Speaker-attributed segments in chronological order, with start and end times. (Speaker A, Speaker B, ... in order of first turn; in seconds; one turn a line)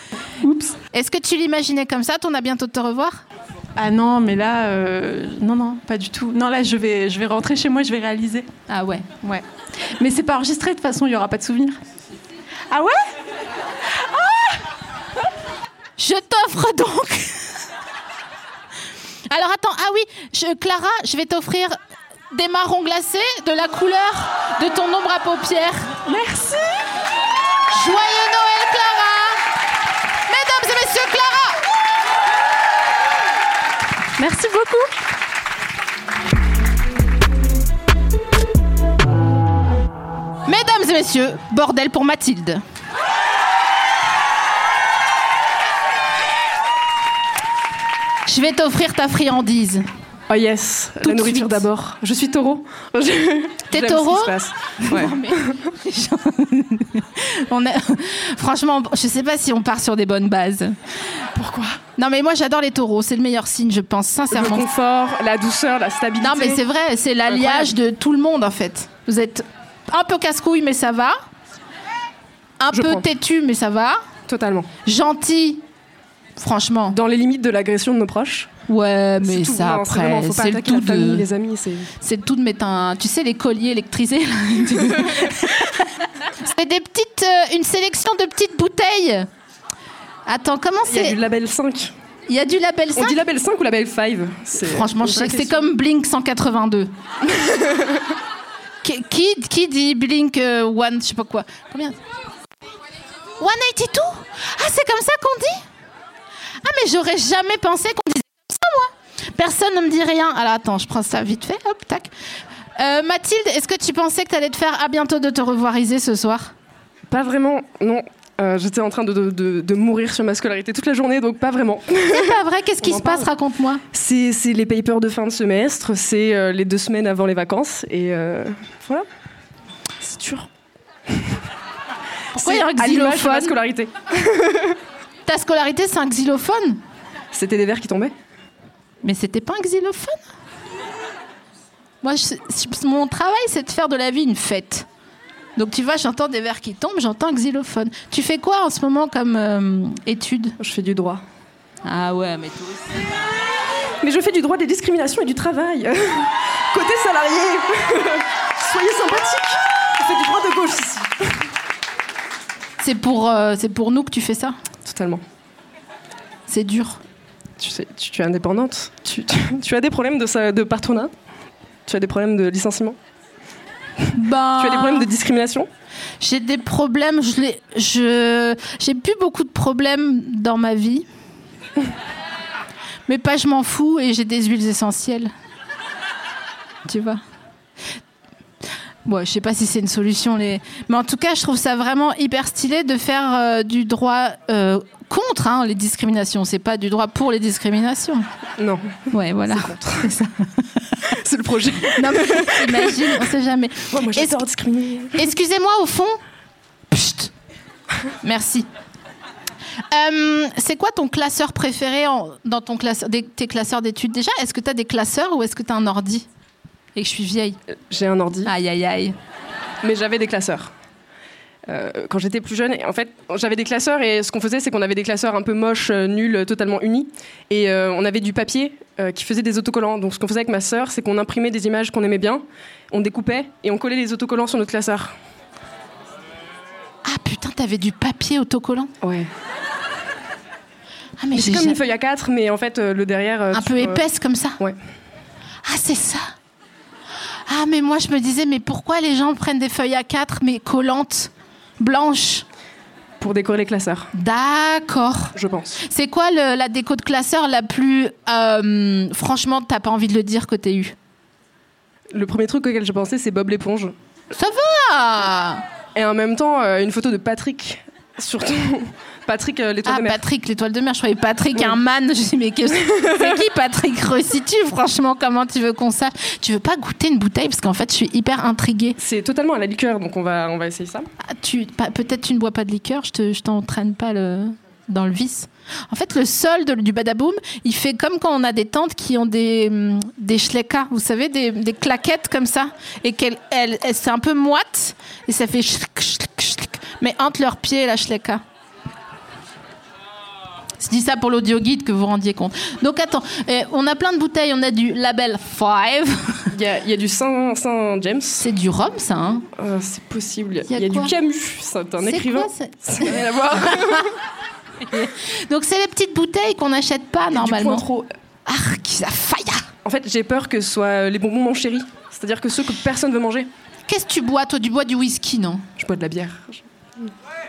Speaker A: 0.4-0.8
Speaker B: 0.9-3.2
Speaker A: 3.8-8.5
Speaker B: 8.7-9.3
Speaker A: 10.0-11.8
Speaker A: 12.7-13.0
Speaker B: 16.0-17.6
Speaker B: 19.3-21.8
Speaker B: 22.3-25.9
Speaker A: 26.1-26.8
Speaker B: 27.7-29.4
Speaker B: 30.3-31.6
Speaker A: 34.2-34.9
Speaker B: 40.5-42.6
Speaker B: 48.3-49.9
Speaker C: 50.3-55.5
Speaker B: 51.0-51.6
Speaker B: 53.7-60.8
Speaker A: 61.4-61.7
Speaker B: 62.0-64.7
Speaker C: 64.3-66.6
Speaker B: 66.2-71.2
Speaker C: 67.3-67.7
Speaker B: 72.6-74.0
Speaker C: 72.7-73.1
Speaker C: 74.3-74.7
Speaker B: 74.8-75.6
Speaker B: 76.4-77.0
Speaker C: 76.9-78.5
Speaker B: 78.7-81.3
Speaker C: 79.2-81.9
Speaker B: 82.0-85.9
Speaker B: 86.4-89.3
Speaker B: 90.3-91.2
Speaker C: 90.9-91.9
Speaker B: 92.3-93.2
Speaker C: 93.0-95.6
Speaker B: 94.6-96.9
Speaker C: 97.3-98.0
Speaker B: 98.8-102.0
Speaker B: 103.4-105.6
Speaker B: 106.6-112.1
Speaker B: 112.8-116.5
Speaker C: 117.1-123.3
Speaker B: 122.1-123.8
Speaker C: 123.9-129.1
Speaker C: 130.0-130.5
Speaker B: 132.3-133.6
Speaker C: 132.3-134.8
Speaker B: 135.3-136.8
Speaker C: 137.3-138.2
Speaker B: 139.0-140.2
Speaker B: 142.0-144.9
Speaker B: 145.6-150.6
Speaker C: 150.6-151.2
Speaker B: 151.8-153.1
Speaker C: 154.0-161.3
Speaker B: 162.8-164.6
Speaker C: 164.8-165.2
Speaker B: 166.5-167.0
Speaker C: 167.6-171.1
Speaker C: 171.9-173.0
Speaker B: 174.1-175.1
Speaker C: 174.6-175.7
Speaker B: 176.2-181.1
Speaker B: 183.1-185.3
Speaker B: 186.9-187.2
Speaker B: 189.1-198.3
Speaker C: 198.6-200.1
Speaker B: 199.1-200.5
Speaker C: 201.1-203.2
Speaker B: 201.9-204.5
Speaker C: 203.9-205.2
Speaker B: 205.1-206.2
Speaker B: 206.9-207.3
Speaker B: 208.2-208.7
Speaker B: 209.9-216.3
Speaker B: 216.9-217.6
Speaker C: 217.9-218.5
Speaker B: 218.4-219.2
Speaker C: 219.8-220.7
Speaker C: 221.7-235.2
Speaker B: 237.1-238.9
Speaker C: 239.0-239.3
Speaker B: 241.2-241.8
Speaker C: 241.3-244.0
Speaker B: 243.5-244.6
Speaker B: 245.7-246.3
Speaker B: 247.5-252.4
Speaker C: 253.2-254.1
Speaker B: 254.1-260.9
Speaker C: 255.4-255.8
Speaker C: 262.1-263.9
Speaker B: 264.3-265.6
Speaker C: 265.9-270.2
Speaker B: 269.9-279.0
Speaker C: 272.8-273.2
Speaker C: 279.0-281.1
Speaker B: 281.2-298.4
Speaker B: 300.8-306.5
Speaker C: 306.5-308.5
Speaker B: 308.4-309.5
Speaker C: 309.6-314.1
Speaker B: 310.7-311.1
Speaker B: 312.0-314.1
Speaker B: 314.8-317.9
Speaker C: 317.3-318.1
Speaker B: 318.5-319.7
Speaker C: 319.9-323.5
Speaker B: 323.9-325.6
Speaker C: 325.8-327.1